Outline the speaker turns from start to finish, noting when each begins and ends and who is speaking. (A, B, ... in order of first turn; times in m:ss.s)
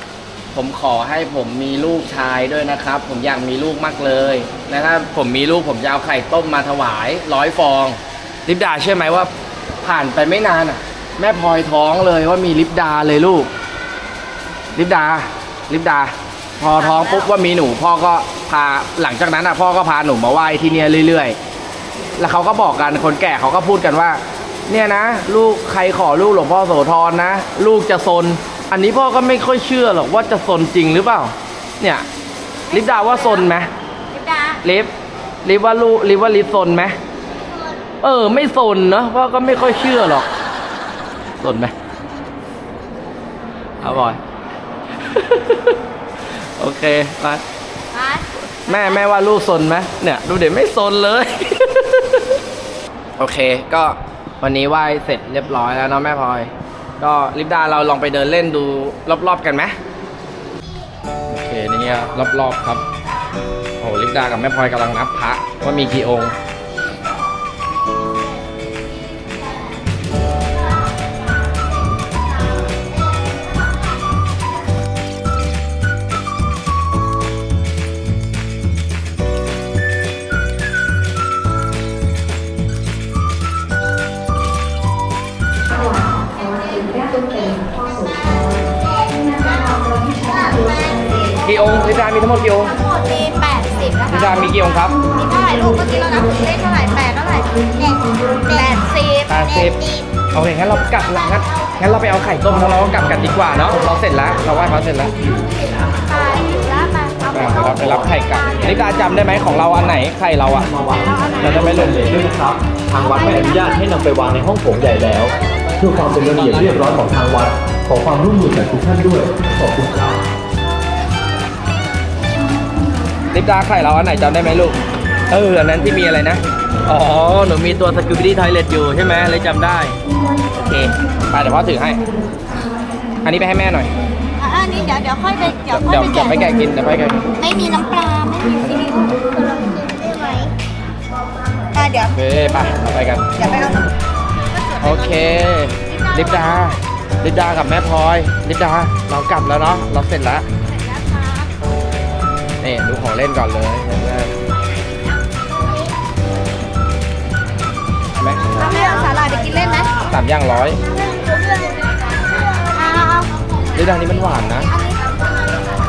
0:00.5-0:09.3 A
0:09.8-0:13.5 A
0:14.7-0:21.4 A
0:16.6-0:17.3 B
0:22.2-0:32.1 A
0:32.7-0:33.5 B
0:32.7-0:33.7 A
0:34.1-0:34.6 B
0:34.6-0:34.9 A
0:35.4-0:37.0 A
0:37.3-0:37.9 C
0:38.0-0:40.3 A
0:41.4-0:41.7 A
0:43.8-0:44.2 A
0:45.0-0:45.8 A
0:46.4-0:47.4 A
0:47.9-0:49.0 B
0:48.6-0:52.2 A
0:53.2-0:59.8 A
1:01.3-1:02.8 A
1:03.8-1:06.4 A
1:26.0-1:28.2 B
1:27.6-1:31.4 C
1:29.4-1:29.8 B
1:31.4-1:32.7 A
1:32.6-1:37.6 B
1:34.1-1:35.0 A
1:37.7-1:38.8 C
1:38.5-1:39.4 B
1:39.3-1:39.8 A
1:39.4-1:40.1 C
1:40.3-1:45.2 A
1:40.9-1:42.0 B
1:45.8-1:49.4 B
1:47.3-1:50.7 A
1:50.7-2:00.2 D
1:51.0-1:51.6 B
1:51.4-1:52.1 A
1:52.9-1:54.2 B
1:54.9-1:55.7 B
1:55.7-1:57.0 A
2:03.3-2:04.8 A
2:05.3-2:10.0 A
2:10.5-2:12.0 A
2:13.2-2:13.9 A
2:14.4-2:16.5 B
2:15.8-2:17.2 A
2:17.4-2:19.0 B
2:18.6-2:19.2 A
2:18.8-2:20.5 C
2:21.7-2:22.2 B
2:22.1-2:23.3 A
2:23.4-2:26.7 B
2:24.8-2:30.4 A
2:31.0-2:31.4 B
2:32.6-2:34.3 A
2:35.5-2:36.0 C
2:38.2-2:38.7 A
2:38.6-2:39.5 C
2:38.6-2:40.1 B
2:40.1-2:40.8 A
2:40.8-2:42.8 C
2:42.7-2:43.3 B
2:43.7-2:44.7 A
2:44.7-2:45.1 C